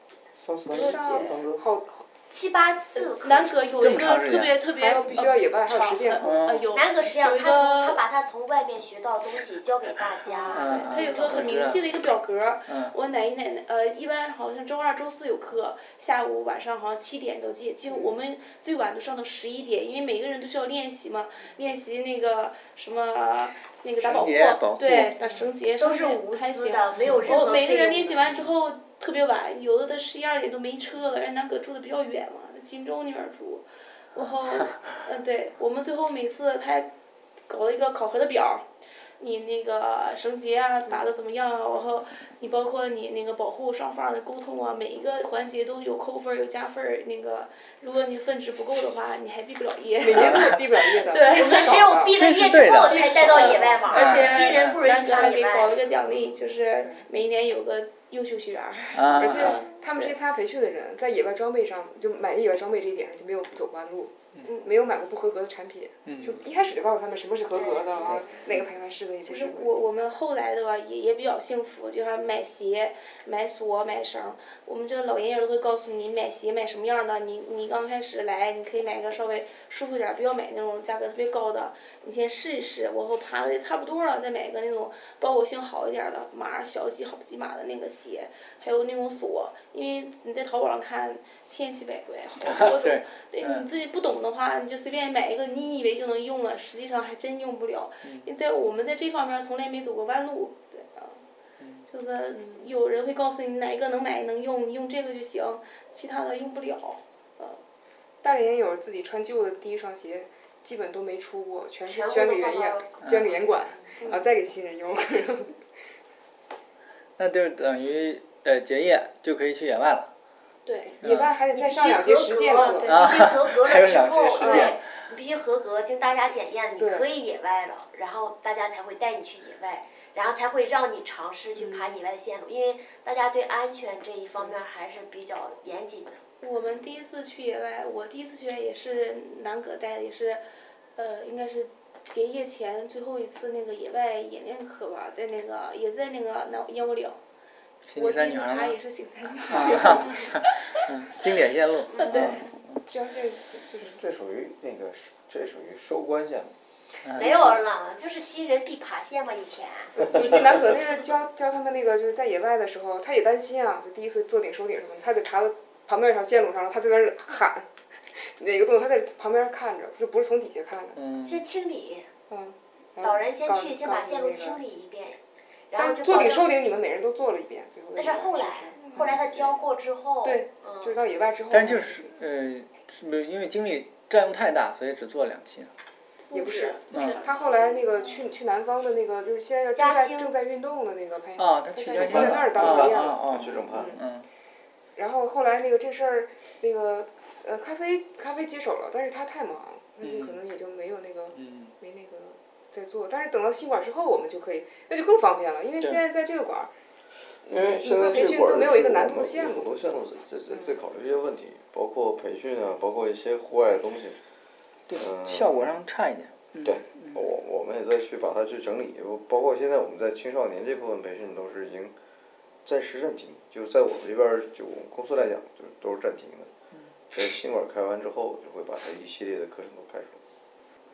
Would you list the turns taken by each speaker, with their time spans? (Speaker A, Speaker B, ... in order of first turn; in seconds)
Speaker A: 0.4-1.6, 153.8-156.5, 191.9-194.0, 207.5-214.2, 215.0-215.8, 216.6-221.9, 222.7-226.5, 227.1-230.2
Speaker B: 0.7-1.4, 3.0-8.0, 10.3-36.9, 37.5-38.7, 39.2-51.9, 52.9-60.2, 69.2-101.2, 101.9-107.6, 114.0-114.2, 120.7-121.0, 122.6-123.3, 136.4-140.4, 141.0-147.2, 147.9-150.8, 151.9-152.5, 186.3-188.2
Speaker C: 0.7-2.1, 4.7-6.4, 50.0-52.2, 53.1-53.8, 56.8-57.1, 59.1-69.7, 102.4-102.7, 108.2-115.6, 120.9-123.1, 124.4-124.8, 126.8-127.1, 131.6-131.9, 152.8-154.0, 157.2-157.5, 160.0-171.0, 172.3-174.6, 175.8-179.5, 180.2-182.2, 186.3-194.0, 195.0-206.7, 207.5-209.7
Speaker D: 2.3-3.6, 6.7-10.9, 25.8-28.3, 51.3-55.8, 67.5-68.4, 111.9-113.0, 121.5-136.2, 157.2-160.0, 171.2-172.1, 173.0-175.2, 175.7-176.6, 177.9-181.0, 189.8-190.3
Speaker E: 3.8-4.6, 6.2-6.7, 10.5-11.9, 12.7-12.9, 24.0-25.1, 34.2-34.7, 50.1-50.6, 52.1-53.2, 53.9-54.8, 58.9-59.6, 66.1-66.4, 92.4-93.7, 113.0-113.3, 117.2-120.1, 121.0-121.3, 122.9-124.8, 147.9-148.8, 149.4-152.5, 171.0-171.4, 181.5-185.7, 186.9-187.2, 191.4-194.3, 200.0-200.4, 201.3-201.7, 214.9-217.2